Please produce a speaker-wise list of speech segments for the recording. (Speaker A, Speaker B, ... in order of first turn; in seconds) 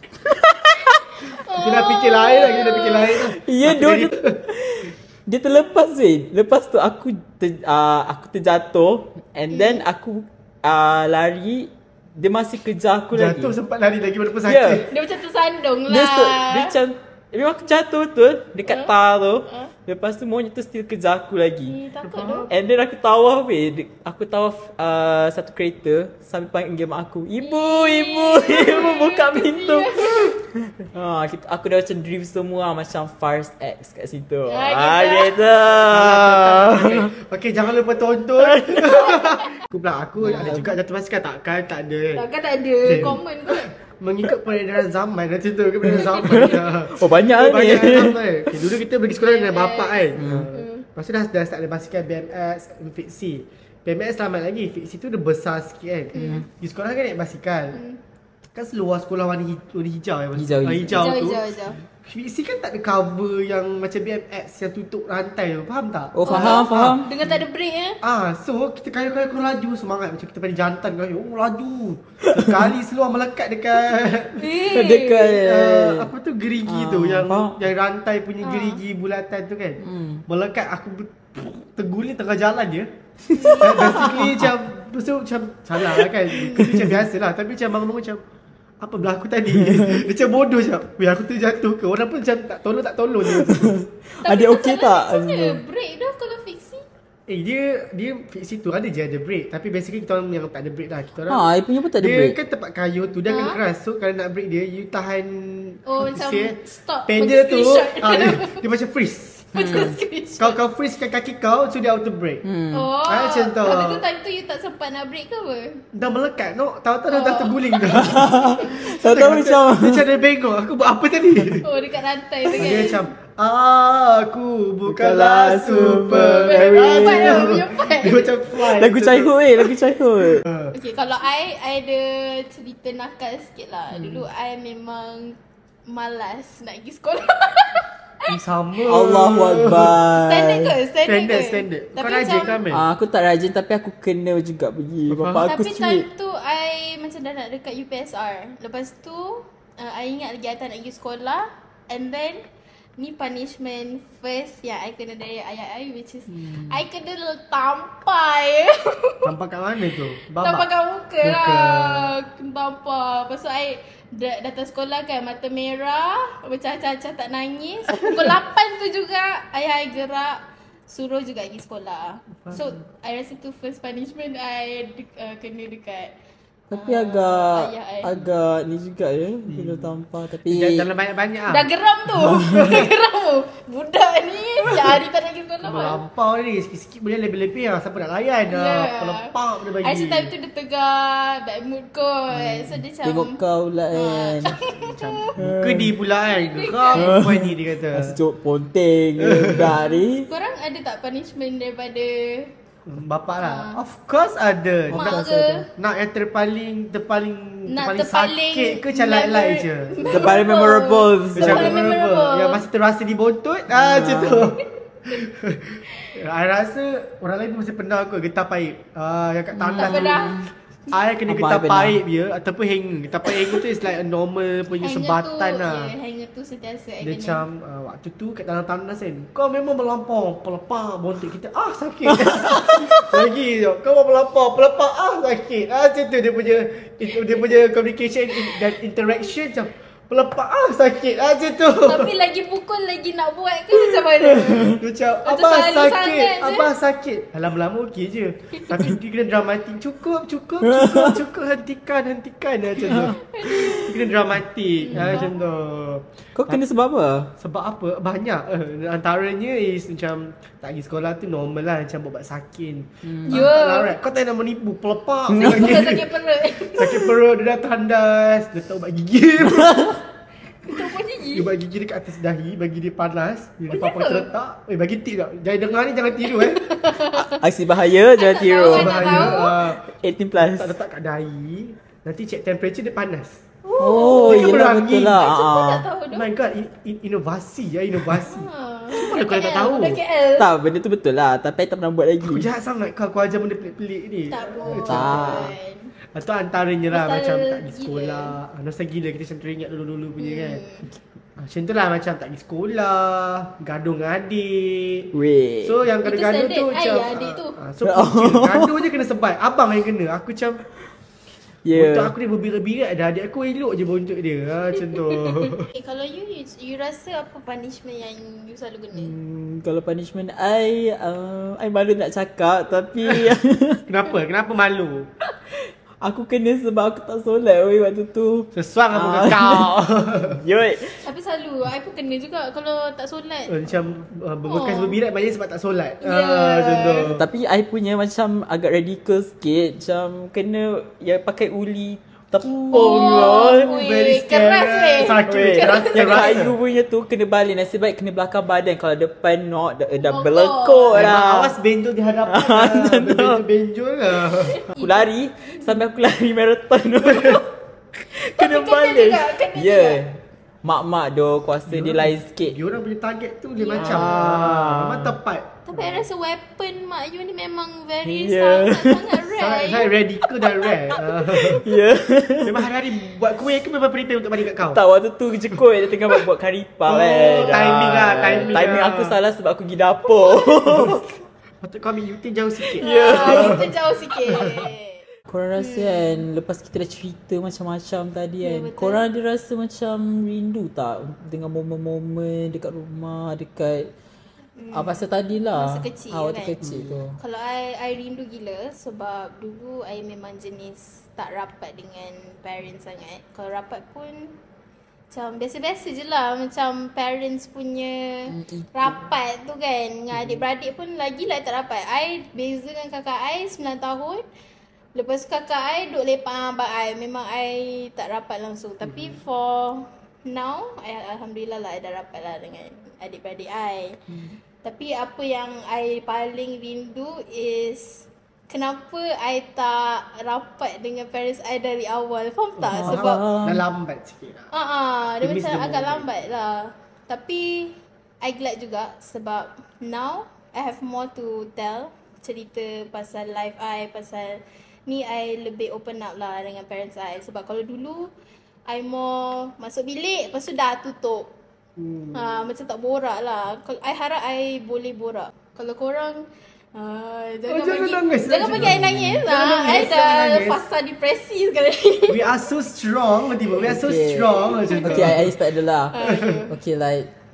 Speaker A: 0.3-1.0, 3.3-13.6, 14.5-14.9, 15.9-21.8, 22.5-37.1, 38.4-39.1, 40.2-40.7, 45.9-48.7, 50.2-50.5, 56.1-56.5, 60.4-61.1, 66.1-67.1, 72.3-72.6, 74.7-76.1, 76.7-77.7, 79.8-80.2, 83.3-84.5, 86.0-87.0, 89.6-90.0, 93.3-95.6, 101.3-102.4, 109.5-110.0, 112.4-112.9, 117.9-120.1, 124.9-127.6, 128.8-130.4, 133.9-134.2, 138.9-140.7, 142.7-146.1, 156.4-156.6, 176.7-180.9, 192.3-194.6, 195.4-195.9, 197.0-200.3, 204.9-205.7, 210.1-211.8, 213.7-214.5, 219.6-220.5, 221.3-222.0, 250.6-251.2, 252.9-253.2, 254.9-255.2, 256.4-257.3, 263.1-263.5, 265.3-265.8, 269.5-270.0, 277.1-280.7, 283.8-285.9, 290.4-292.5, 294.8-295.5, 305.1-305.8, 307.8-308.8, 311.6-312.1, 319.0-323.8, 326.0-331.0, 337.1-343.7, 345.3-351.6, 352.3-353.4, 354.8-357.5, 358.1-362.6, 363.8-365.1, 368.1-369.1, 371.3-372.7, 374.6-381.1, 382.7-383.7, 385.3-393.9, 394.7-397.2, 408.3-408.9, 432.7-433.6, 463.6-467.1
Speaker B: 1.2-3.1, 9.5-9.8, 14.9-16.7, 18.7-18.9, 19.5-19.7, 21.7-22.5, 27.4-30.3, 34.5-35.5, 39.1-39.6, 42.1-43.7, 49.2-50.9, 56.1-56.5, 57.7-58.0, 61.0-61.8, 66.3-68.0, 74.4-75.4, 78.4-78.8, 83.3-84.2, 86.3-86.7, 94.2-96.8, 103.3-103.6, 105.9-108.6, 109.5-110.6, 112.7-115.8, 117.1-118.7, 121.6-123.0, 126.1-128.3, 130.7-135.4, 135.9-138.3, 140.2-142.6, 145.4-152.4, 153.0-159.3, 160.4-176.2, 176.7-178.1, 181.5-186.0, 188.5-189.3, 189.8-193.4, 193.9-195.3, 196.3-197.2, 199.8-202.5, 203.4-203.8, 204.9-205.6, 207.7-212.6, 219.8-220.4, 224.8-227.4, 241.9-246.7, 248.5-248.8, 252.9-253.9, 254.8-255.4, 263.3-263.9, 265.4-267.0, 270.6-271.5, 273.7-274.3, 276.3-277.4, 278.2-279.5, 283.6-286.3, 288.2-290.5, 294.3-295.9, 296.9-298.4, 300.2-300.9, 306.0-307.6, 315.1-319.1, 331.0-333.5, 334.5-335.0, 336.0-337.1, 342.7-346.3, 350.0-351.1, 354.5-355.1, 358.3-360.0, 363.6-364.2, 365.7-370.0, 382.8-385.0, 385.6-386.2, 388.4-389.0, 394.6-395.0, 395.6-396.6, 397.2-404.4, 405.1-414.2, 414.9-424.0, 424.6-433.2, 434.5-448.1, 448.7-451.3, 452.1-462.3, 464.6-465.1, 465.9-466.5
Speaker C: 1.6-4.4, 13.1-14.9, 22.0-22.5, 35.9-42.3, 42.9-57.8, 58.5-61.4, 62.0-67.4, 68.0-74.6, 75.3-82.9, 83.6-88.2, 88.8-93.8, 97.3-109.7, 110.4-112.5, 113.0-114.0, 115.9-121.7, 122.5-129.7, 130.5-130.7, 138.3-140.0, 141.1-142.8, 145.1-145.5, 159.2-160.7, 161.2-162.1, 179.5-179.9, 180.5-181.7, 182.4-182.9, 185.7-190.3, 194.8-198.2, 199.2-199.8, 202.9-205.2, 205.8-210.4, 211.3-220.3, 220.9-225.9, 227.0-242.1, 244.6-256.6, 257.4-266.2, 266.7-270.0, 271.3-276.7, 278.7-279.8, 280.4-283.4, 283.9-285.2, 286.1-290.0, 292.2-295.5, 296.1-300.6, 301.4-305.1, 305.6-310.6, 311.7-315.7, 323.9-325.1, 328.6-330.4, 333.5-337.2, 342.7-346.6, 350.9-354.7, 361.7-366.1, 369.4-371.6, 372.4-374.8, 376.9-379.1, 380.7-381.0, 381.6-383.7, 384.3-384.6, 396.6-396.9, 432.7-434.5, 435.2-436.2, 457.5-460.6, 462.1-465.3